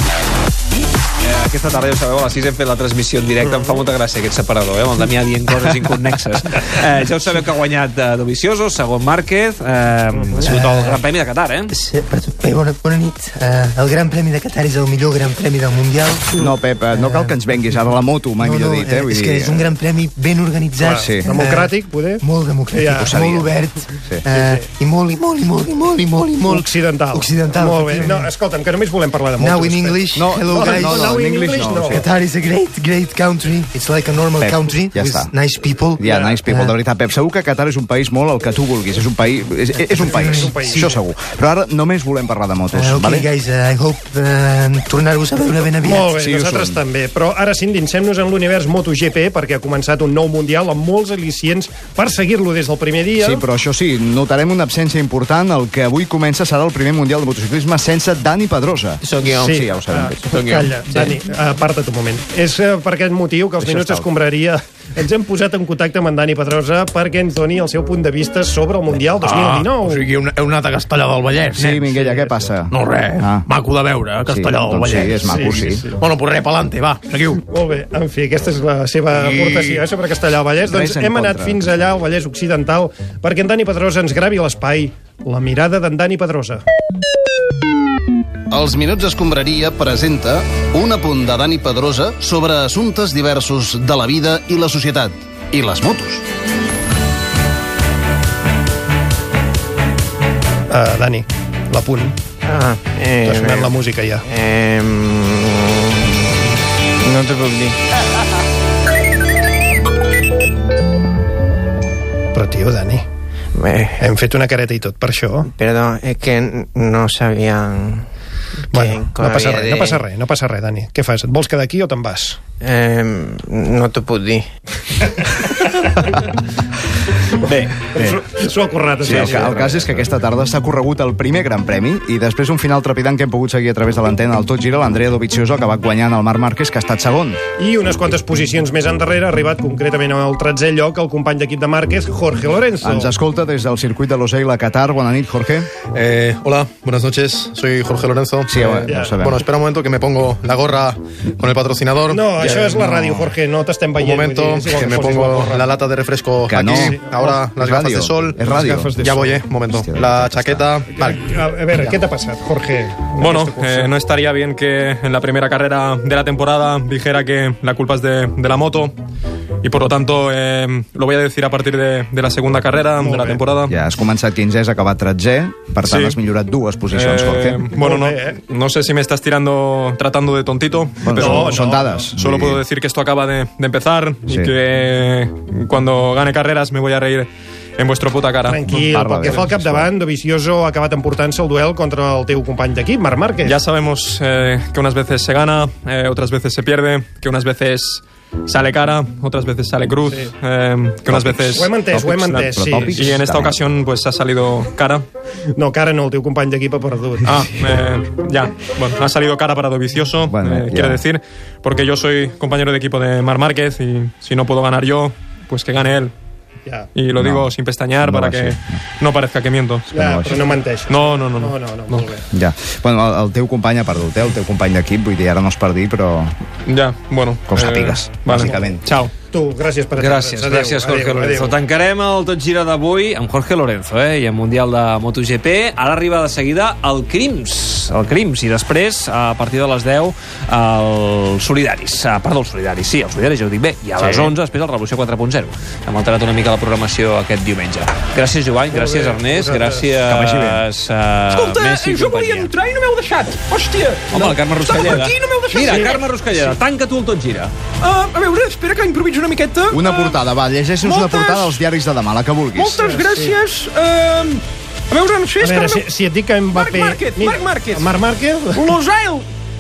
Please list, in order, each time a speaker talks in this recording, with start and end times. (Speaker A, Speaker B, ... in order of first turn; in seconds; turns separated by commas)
Speaker A: 1.2-11.7, Speaker B: 3.4-3.8, Speaker B: 10.1-10.6, Speaker C: 10.4-11.0, Speaker C: 11.7-17.4, Speaker D: 16.4-19.7, Speaker C: 18.4-28.3, Speaker B: 20.8-23.1, Speaker D: 21.0-21.3, Speaker D: 23.0-23.5, Speaker B: 24.3-24.7, Speaker B: 26.4-32.1, Speaker C: 29.4-31.2, Speaker D: 30.1-32.0, Speaker C: 31.9-36.7, Speaker D: 34.4-35.3, Speaker D: 36.0-43.3, Speaker B: 36.0-36.4, Speaker C: 39.7-41.0, Speaker B: 40.0-41.0, Speaker C: 42.7-46.1, Speaker B: 45.8-53.4, Speaker D: 46.1-46.8, Speaker D: 53.2-60.3, Speaker E: 59.0-59.5, Speaker B: 59.3-70.1, Speaker E: 60.3-61.1, Speaker D: 63.6-64.1, Speaker F: 69.2-71.8, Speaker D: 71.5-73.5, Speaker B: 71.8-72.5, Speaker F: 72.7-77.4, Speaker D: 74.3-75.8, Speaker B: 75.2-76.0, Speaker B: 77.5-86.6, Speaker F: 79.2-79.8, Speaker D: 80.6-81.6, Speaker G: 88.5-96.2, Speaker B: 100.7-102.1, Speaker B: 103.2-104.2, Speaker H: 104.4-105.0, Speaker H: 107.1-107.7, Speaker B: 112.3-113.0, Speaker H: 113.6-113.9, Speaker B: 114.0-115.5, Speaker H: 115.6-117.2, Speaker B: 118.7-122.4, Speaker H: 122.7-124.4, Speaker A: 127.4-128.2, Speaker B: 127.9-129.7, Speaker A: 129.0-130.1, Speaker D: 129.0-137.4, Speaker B: 137.6-143.1, Speaker D: 142.8-145.7, Speaker I: 145.9-152.8, Speaker D: 148.5-149.4, Speaker B: 148.8-149.2, Speaker B: 152.1-155.8, Speaker D: 152.8-153.3, Speaker I: 154.0-161.2, Speaker D: 156.4-159.0, Speaker B: 156.7-157.2, Speaker B: 158.5-159.4, Speaker D: 159.7-160.7, Speaker B: 160.9-163.9, Speaker J: 163.2-168.9, Speaker J: 169.6-173.7, Speaker B: 173.0-173.5, Speaker D: 173.7-177.7, Speaker J: 175.8-176.2, Speaker J: 176.9-189.5, Speaker B: 177.8-178.4, Speaker D: 181.0-182.6, Speaker B: 181.1-182.1, Speaker D: 184.3-184.5, Speaker B: 188.4-193.6, Speaker D: 188.7-189.9, Speaker J: 193.4-205.1, Speaker D: 201.1-203.6, Speaker B: 201.5-203.1, Speaker B: 205.6-207.5, Speaker J: 207.2-216.1, Speaker D: 210.3-211.0, Speaker J: 216.9-219.8, Speaker D: 217.2-218.6, Speaker D: 219.9-220.5, Speaker B: 219.9-222.2, Speaker J: 220.9-222.1, Speaker D: 222.3-226.3, Speaker J: 226.7-229.1, Speaker D: 227.5-228.8, Speaker B: 228.3-228.6, Speaker B: 229.3-231.6, Speaker A: 229.9-252.5, Speaker D: 244.0-244.3, Speaker B: 248.7-250.0, Speaker D: 250.0-250.6, Speaker E: 251.4-254.1, Speaker A: 254.1-257.5, Speaker E: 254.8-256.0, Speaker E: 257.8-260.2, Speaker D: 259.7-262.8, Speaker E: 260.8-261.5, Speaker E: 262.6-265.7, Speaker B: 262.8-263.4, Speaker B: 265.4-268.7, Speaker E: 267.3-267.8, Speaker E: 268.6-269.2